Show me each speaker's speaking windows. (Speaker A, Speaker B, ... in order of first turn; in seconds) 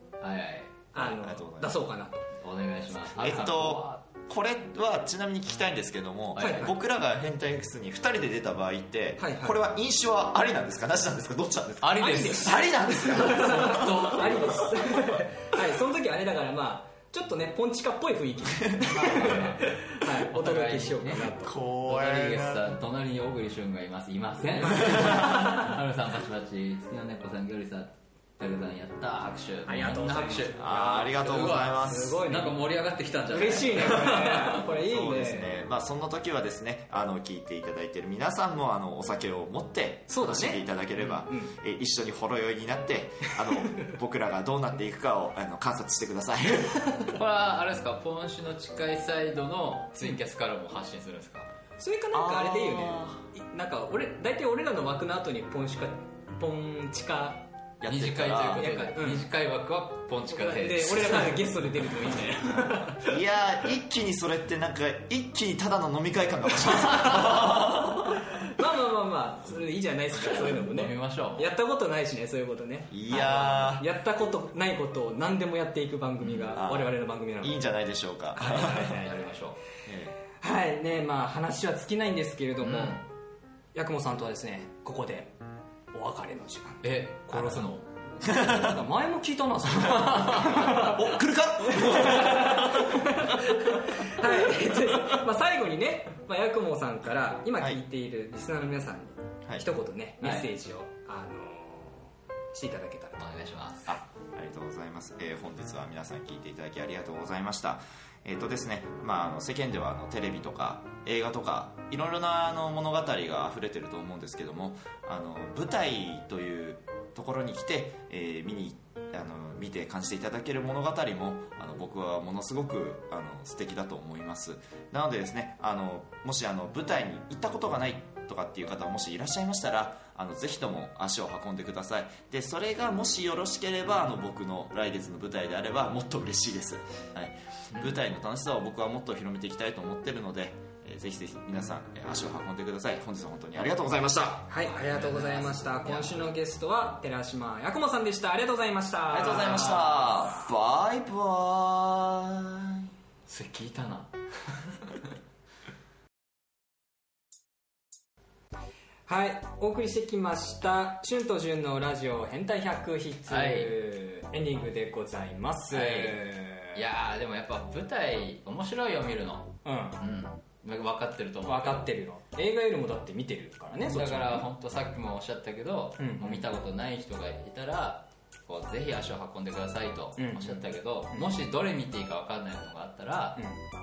Speaker A: 0.2-0.8, 2.4-4.0, 11.8-14.4, 18.8-34.6, 47.1-51.5, 57.9-61.4, 70.2-71.5, 78.4-79.6, 82.6-83.0, 86.8-87.8, 89.8-91.0, 100.2-100.5, 103.2-104.0, 144.6-146.3, 153.3-155.0, 163.3-163.8, 165.7-166.2, 166.7-171.9, 173.8-183.5
Speaker B: 0.9-2.3, 6.3-6.8, 9.2-9.6, 12.0-21.6, 24.7-25.7, 29.6-30.7, 31.7-32.6, 33.3-35.6, 40.1-40.6, 41.2-41.5, 51.8-57.5, 58.5-59.3, 60.3-63.2, 66.7-67.8, 68.3-77.7, 78.3-79.4, 80.4-83.1, 83.7-85.3, 85.9-91.1, 91.7-103.2, 144.5-150.5, 159.1-166.8, 169.6-170.0, 171.4-174.5, 176.0-176.4, 180.2-181.3
Speaker C: 0.9-1.8, 3.2-15.0, 21.4-22.7, 30.6-32.2, 34.8-47.1, 52.1-53.2, 57.8-58.7, 63.1-68.2, 72.9-73.9, 76.5-78.9, 79.8-80.1, 88.2-88.7, 90.5-94.3, 94.9-95.2, 103.9-144.5, 149.1-152.9